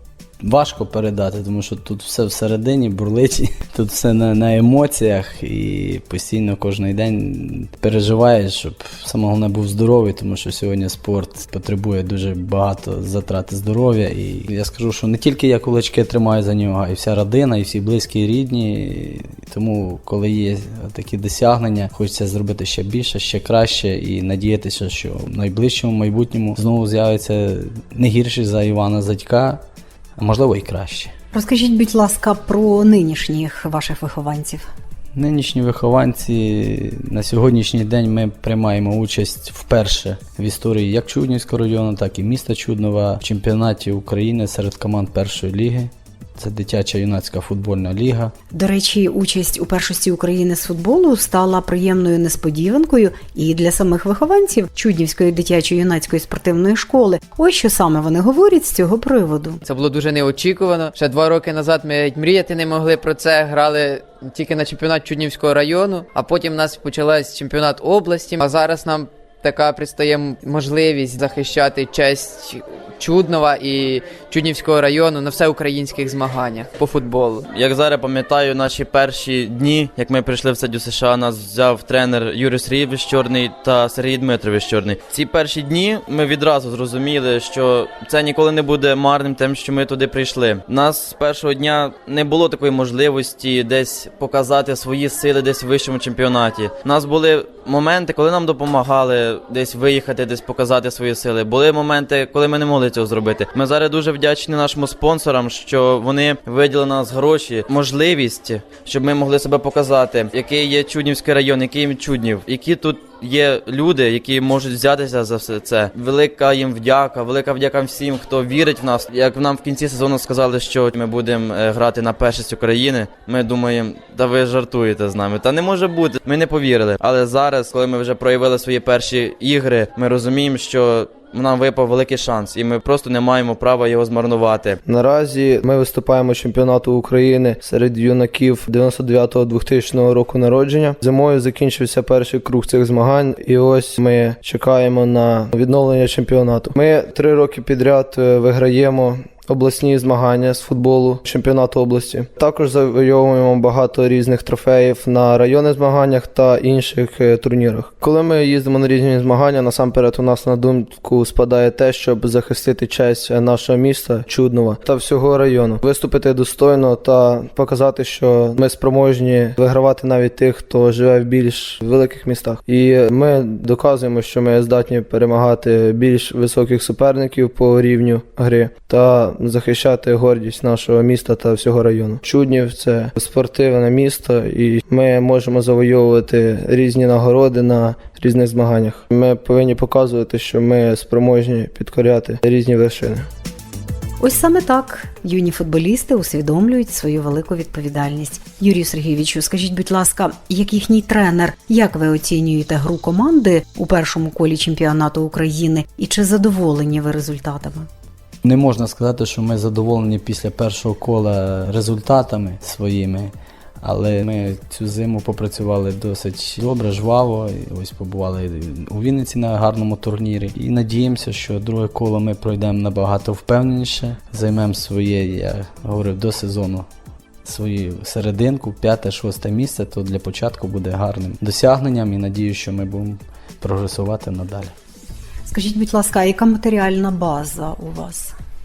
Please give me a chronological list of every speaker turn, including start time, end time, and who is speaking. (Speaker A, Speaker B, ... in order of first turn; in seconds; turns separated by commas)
Speaker A: 0.4-29.6, Speaker A: 30.2-31.1, Speaker B: 31.3-34.7, Speaker A: 35.1-48.3, Speaker B: 48.5-59.6, Speaker C: 59.6-77.5, Speaker D: 77.5-134.8, Speaker E: 134.9-193.2, Speaker B: 194.2-207.9, Speaker A: 208.4-226.9, Speaker A: 227.4-234.7, Speaker B: 235.5-238.3